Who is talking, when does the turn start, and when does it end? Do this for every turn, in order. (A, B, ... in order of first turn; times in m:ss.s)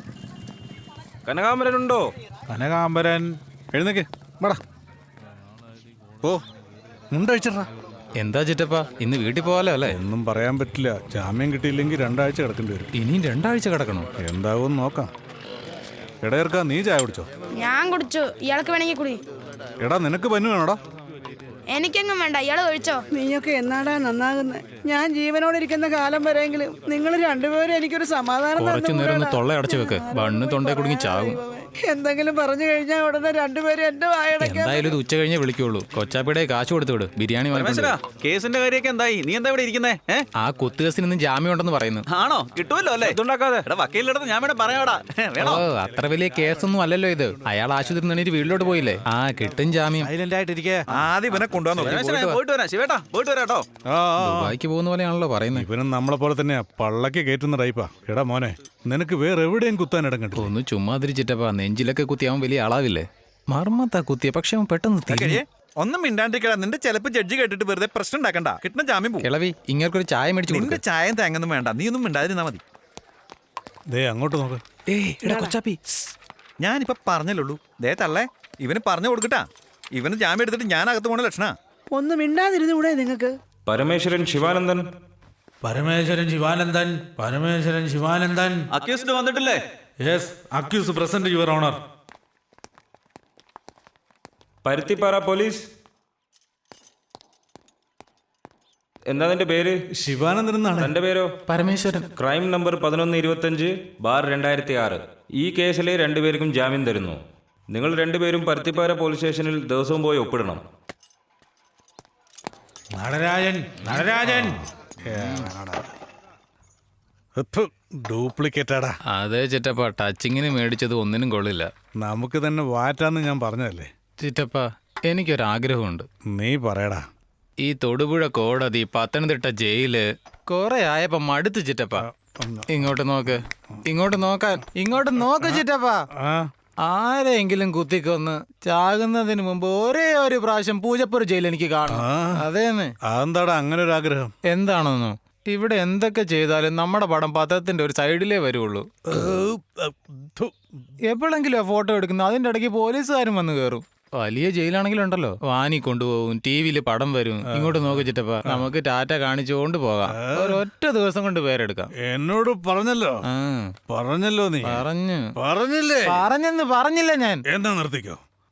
0:01.3-0:02.0 A
0:02.5-0:04.6 B
0:07.1-0:07.7 B
0:08.2-0:10.0 C
0:09.9-0:12.9 B
0:13.0-0:14.1 C
0:14.2-0:15.1 B
0:16.2-0:17.3 B
0:17.6-0:19.2 D
0:19.8-0:20.8 B
0:21.7-0:23.0 D
0:23.1-0:34.9 E
0:28.6-0:31.4 C
0:34.4-0:38.0 C
0:37.6-0:40.2 F
0:38.2-0:40.1 G
0:40.4-0:42.0 C
0:42.1-0:43.2 F
0:42.6-0:43.1 G
0:43.8-0:44.7 G
0:43.9-0:45.5 F
0:45.4-0:50.1 C
0:50.9-0:52.0 G
0:51.3-0:53.6 F
0:51.7-0:52.4 C
0:53.0-0:53.6 G
0:53.9-0:54.6 B
0:54.2-0:55.7 C
0:55.6-1:00.5 B
1:00.4-1:05.4 C
1:05.1-1:09.3 G
1:09.2-1:10.8 C
1:10.5-1:12.6 G
1:13.9-1:14.6 B
1:14.9-1:15.8 C
1:16.6-1:21.5 G
1:21.9-1:23.4 E
1:23.7-1:24.8 A
1:25.6-1:28.6 H
1:29.1-1:29.5 G
1:30.0-1:31.8 H
1:34.6-1:35.6 A
1:39.1-1:39.7 A
1:40.0-1:40.9 B
1:40.8-1:41.3 A
1:41.5-1:42.1 C
1:42.2-1:47.2 A
1:47.7-1:50.6 A
1:53.0-1:54.6 H
1:53.8-1:54.1 C
1:54.2-1:55.9 B
1:55.0-1:55.5 C
1:57.4-1:59.0 B
1:59.1-2:01.7 C
2:02.0-2:03.9 B
2:04.2-2:06.1 C
2:06.3-2:07.1 B
2:07.6-2:12.0 C
2:12.0-2:12.8 B
2:12.7-2:16.0 C
2:15.3-2:15.6 B
2:16.2-2:16.5 B
2:16.8-2:22.9 C
2:21.9-2:22.4 B
2:23.1-2:24.3 B
2:24.5-2:28.9 C
2:29.1-2:30.5 B
2:31.1-2:41.9 C
2:37.4-2:38.7 B
2:40.1-2:40.6 B
2:42.0-2:43.2 B
2:43.3-2:43.7 C
2:43.9-2:44.8 B
2:44.7-2:45.3 C
2:45.4-2:46.2 B
2:46.1-2:47.4 C
2:47.5-2:48.2 B